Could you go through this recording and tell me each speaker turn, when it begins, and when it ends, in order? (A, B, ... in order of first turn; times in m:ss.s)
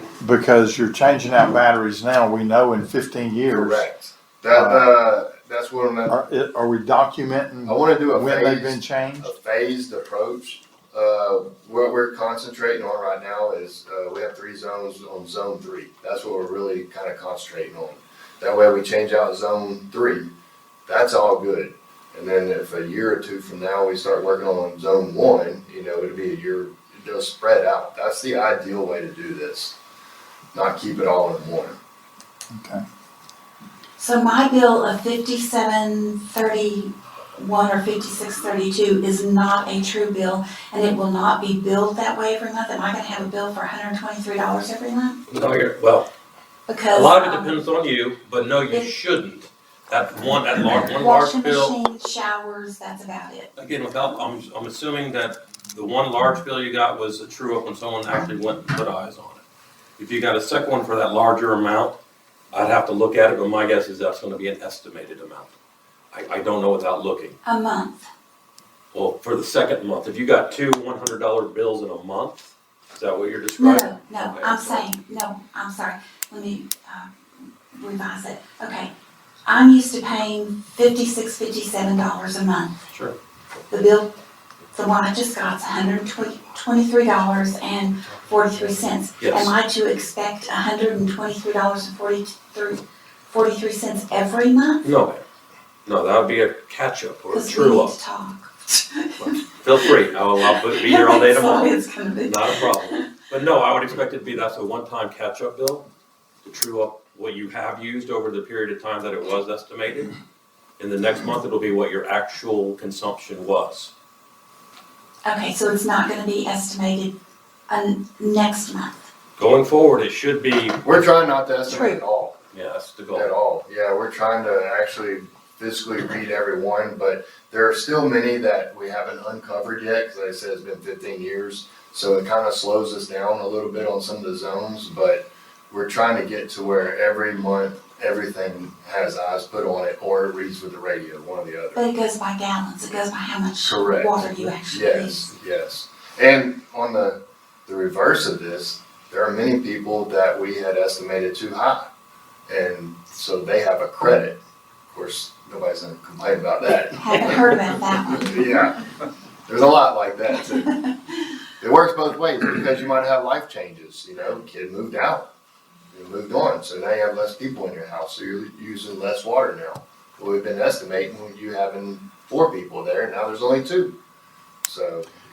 0:00.2-0:03.8 A
0:03.5-0:06.2 B
0:04.5-0:04.8 A
0:06.0-0:09.3 A
0:07.6-0:20.3 B
0:20.8-0:29.8 B
0:30.5-0:31.8 B
0:32.5-0:32.8 A
0:34.0-0:45.2 C
0:45.3-0:46.1 D
0:46.7-0:47.6 C
0:46.9-0:51.7 D
0:50.9-0:53.5 C
0:53.6-0:59.4 D
1:00.0-1:02.0 D
1:02.5-1:05.5 D
1:06.1-1:07.4 D
1:07.4-1:08.1 C
1:08.9-1:14.9 D
1:13.6-1:18.9 C
1:19.4-1:22.7 C
1:22.9-1:23.1 D
1:23.7-1:24.1 C
1:24.7-1:34.8 C
1:29.2-1:29.5 D
1:34.8-1:35.2 D
1:35.8-1:37.9 D
1:37.3-1:39.5 C
1:39.2-1:45.9 D
1:40.5-1:43.0 C
1:46.4-1:50.1 D
1:50.8-1:53.9 D
1:55.2-1:57.1 C
1:57.7-1:59.1 C
1:59.4-2:00.9 D
2:00.8-2:02.4 B
2:01.7-2:02.0 C
2:02.5-2:03.3 D
2:03.1-2:21.8 B
2:21.7-2:25.3 C
2:23.6-2:31.9 B
2:32.5-2:37.4 B
2:37.0-2:38.4 C
2:38.2-2:38.8 B
2:39.5-2:40.8 B
2:41.6-2:45.3 B
2:45.9-2:53.9 B
2:54.6-2:55.1 B